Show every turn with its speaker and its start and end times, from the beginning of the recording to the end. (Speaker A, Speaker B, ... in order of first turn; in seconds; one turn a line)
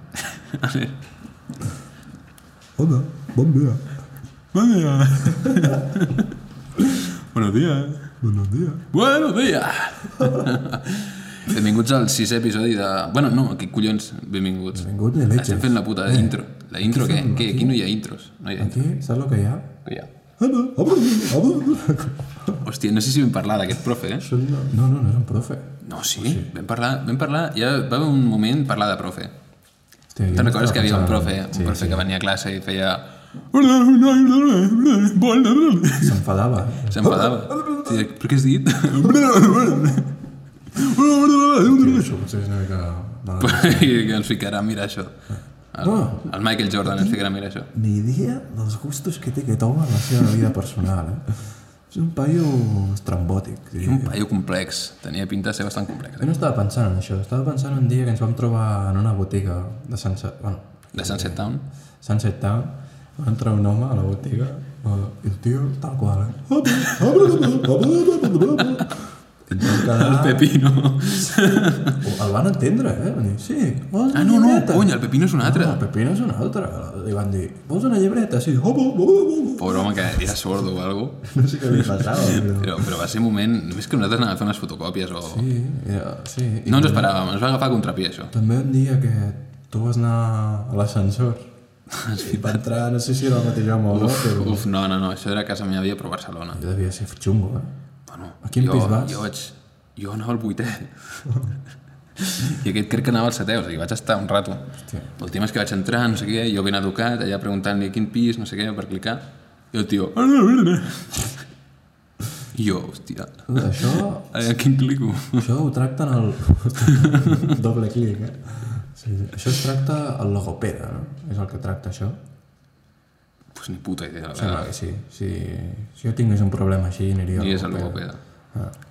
Speaker A: 0.2-1.0
Speaker B: 2.8-4.0
Speaker A: 4.5-6.3
Speaker B: 5.3-5.8
Speaker A: 6.9-8.2
Speaker B: 8.2-8.9
Speaker A: 8.9-18.9
Speaker B: 10.2-10.5
Speaker B: 14.7-17.8
Speaker B: 18.6-19.8
Speaker A: 19.8-20.1
Speaker B: 20.4-22.6
Speaker A: 22.6-24.3
Speaker B: 24.2-26.5
Speaker A: 25.8-29.3
Speaker B: 30.1-32.0
Speaker A: 30.3-36.2
Speaker B: 36.0-38.0
Speaker A: 36.8-40.1
Speaker B: 39.0-39.5
Speaker A: 40.7-42.0
Speaker B: 41.6-43.9
Speaker A: 43.4-47.7
Speaker B: 45.3-47.2
Speaker B: 47.7-54.2
Speaker A: 53.8-56.3
Speaker B: 56.2-70.5
Speaker A: 60.9-61.6
Speaker A: 69.6-72.0
Speaker B: 71.0-80.3
Speaker A: 74.1-75.8
Speaker A: 79.6-85.5
Speaker B: 81.2-82.8
Speaker B: 85.2-87.1
Speaker A: 86.7-88.3
Speaker B: 88.3-91.5
Speaker A: 91.9-92.6
Speaker B: 92.2-94.7
Speaker A: 93.9-96.6
Speaker B: 96.5-97.7
Speaker A: 98.1-101.4
Speaker B: 98.4-99.3
Speaker A: 102.2-111.3
Speaker B: 104.8-105.1
Speaker A: 112.5-115.4
Speaker B: 113.5-114.5
Speaker B: 115.4-122.2
Speaker A: 116.9-117.5
Speaker A: 123.5-124.7
Speaker B: 124.3-128.8
Speaker A: 127.3-128.2